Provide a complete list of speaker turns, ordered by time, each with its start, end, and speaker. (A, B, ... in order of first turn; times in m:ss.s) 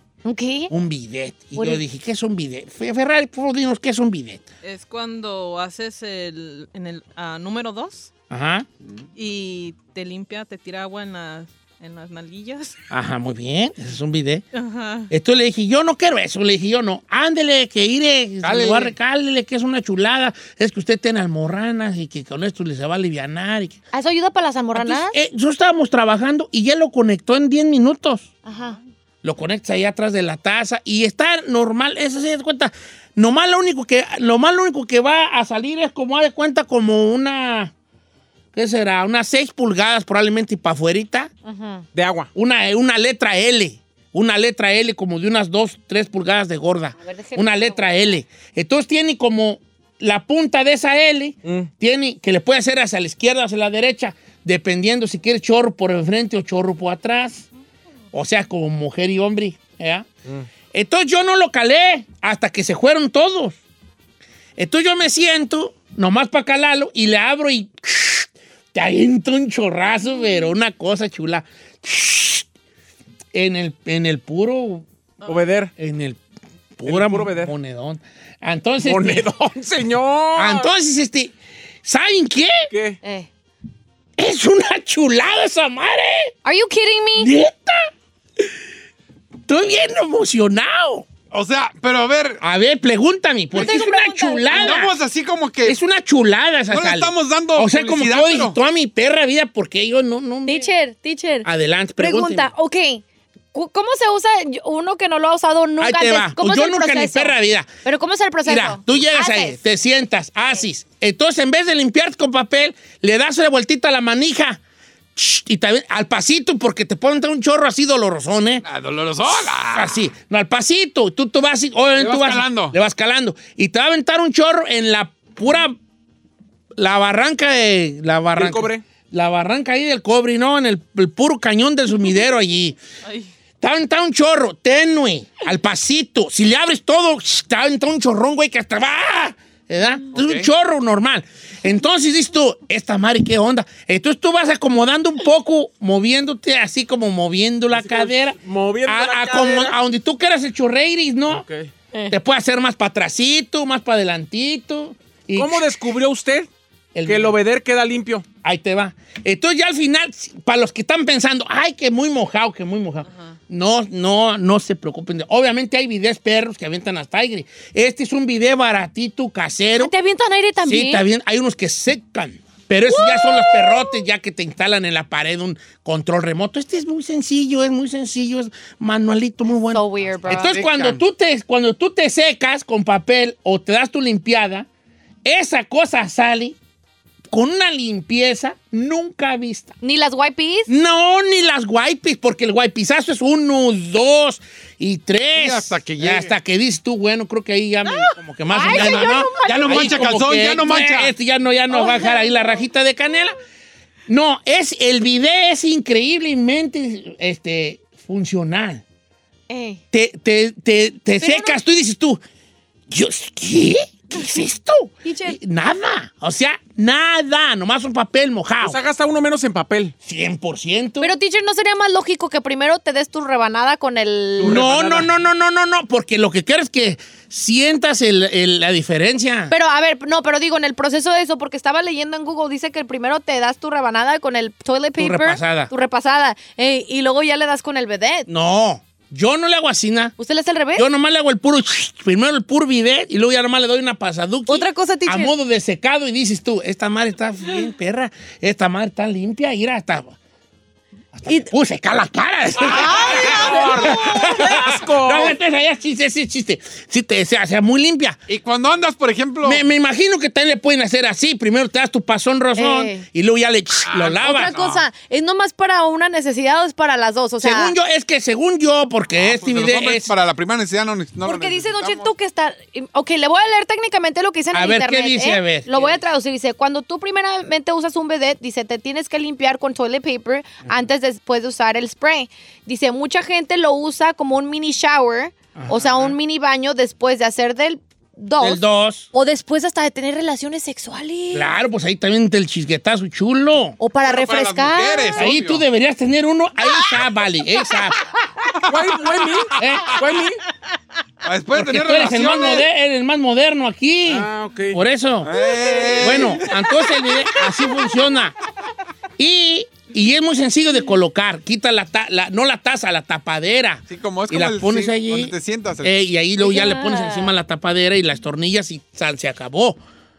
0:00.2-0:00.7 A
0:00.7-0:04.4 B
0:01.6-0:01.8 A
0:04.6-0:08.1 C
0:08.3-0:08.7 B
0:09.1-0:12.8 C
0:12.9-0:14.4 B
0:14.5-0:15.1 C
0:15.1-0:23.8 B
0:18.4-0:18.9 D
0:23.9-0:25.2 A
0:24.7-0:28.3 B
0:28.4-0:28.8 A
0:29.2-0:37.7 B
0:38.5-0:41.3 B
0:41.4-0:41.8 A
0:41.9-0:42.3 E
0:42.3-0:57.5 B
0:47.0-0:48.1 A
0:51.4-0:51.7 E
0:58.1-1:00.1 B
1:00.7-1:03.6 B
1:04.6-1:12.4 B
1:13.3-1:14.8 B
1:15.2-1:15.7 E
1:15.8-1:16.2 B
1:16.7-1:19.3 B
1:16.8-1:17.5 E
1:18.8-1:20.7 E
1:20.4-1:22.7 B
1:22.7-1:23.0 E
1:23.0-1:23.3 A
1:24.2-1:26.3 B
1:26.4-1:27.3 A
1:27.2-1:27.9 B
1:29.4-1:31.1 B
1:31.3-1:32.4 D
1:32.4-1:35.0 B
1:33.5-1:34.8 A
1:34.5-1:35.8 D
1:35.6-1:40.7 B
1:36.7-1:38.6 D
1:40.4-1:41.5 A
1:41.4-1:42.5 B
1:42.0-1:49.6 A
1:45.8-1:47.7 B
1:48.4-1:54.6 B
1:55.1-1:58.6 B
1:58.6-2:00.0 D
1:59.6-2:05.7 B
2:02.0-2:02.7 D
2:06.8-2:12.8 B
2:08.4-2:08.8 E
2:13.6-2:31.4 B
2:20.1-2:20.5 D
2:27.7-2:29.7 E
2:31.3-2:31.7 E
2:32.1-2:35.6 B
2:35.4-2:36.5 E
2:36.9-2:37.4 B
2:37.0-2:38.2 E
2:38.4-2:49.9 B
2:43.1-2:43.3 C
2:49.8-2:51.0 A
2:50.6-3:04.7 B
2:52.9-2:54.0 A
2:59.7-3:00.5 A
3:00.1-3:01.0 D
3:05.2-3:06.6 B
3:07.3-3:09.7 B
3:09.8-3:10.7 A
3:10.7-3:23.4 B
3:15.3-3:16.3 D
3:18.5-3:19.9 A
3:18.6-3:21.1 D
3:21.7-3:22.6 A
3:24.1-3:28.8 B
3:29.5-3:29.8 A
3:29.9-3:32.2 B
3:31.2-3:31.6 A
3:32.9-3:38.8 B
3:35.0-3:35.4 A
3:38.6-3:39.9 E
3:40.0-3:41.1 B
3:41.0-3:44.6 A
3:44.4-3:45.1 E
3:44.4-3:49.5 B
3:49.5-3:58.3 A
3:55.0-3:55.7 B
3:58.3-4:00.1 B
4:00.2-4:00.8 A
4:00.7-4:10.1 B
4:04.5-4:05.3 A
4:11.1-4:18.2 B
4:12.6-4:14.4 A
4:12.7-4:15.4 E
4:18.3-4:19.6 D
4:19.4-4:24.6 B
4:22.5-4:23.0 A
4:23.9-4:24.8 D
4:24.1-4:27.7 A
4:27.4-4:30.1 B
4:29.2-4:32.1 D
4:31.2-4:51.5 A
4:34.5-4:35.8 B
4:45.6-4:45.8 B
4:48.4-4:49.1 B
4:51.3-4:53.8 B
4:53.8-4:55.2 A
4:54.0-4:55.6 D
4:55.2-4:58.0 B
4:58.7-5:00.4 E
4:59.4-5:00.0 D
4:59.6-5:00.0 B
5:01.2-5:02.6 D
5:01.5-5:05.4 B
5:04.1-5:04.8 E
5:05.2-5:06.8 D
5:05.9-5:08.3 B
5:09.2-5:19.8 B
5:13.9-5:15.9 D
5:16.4-5:17.3 A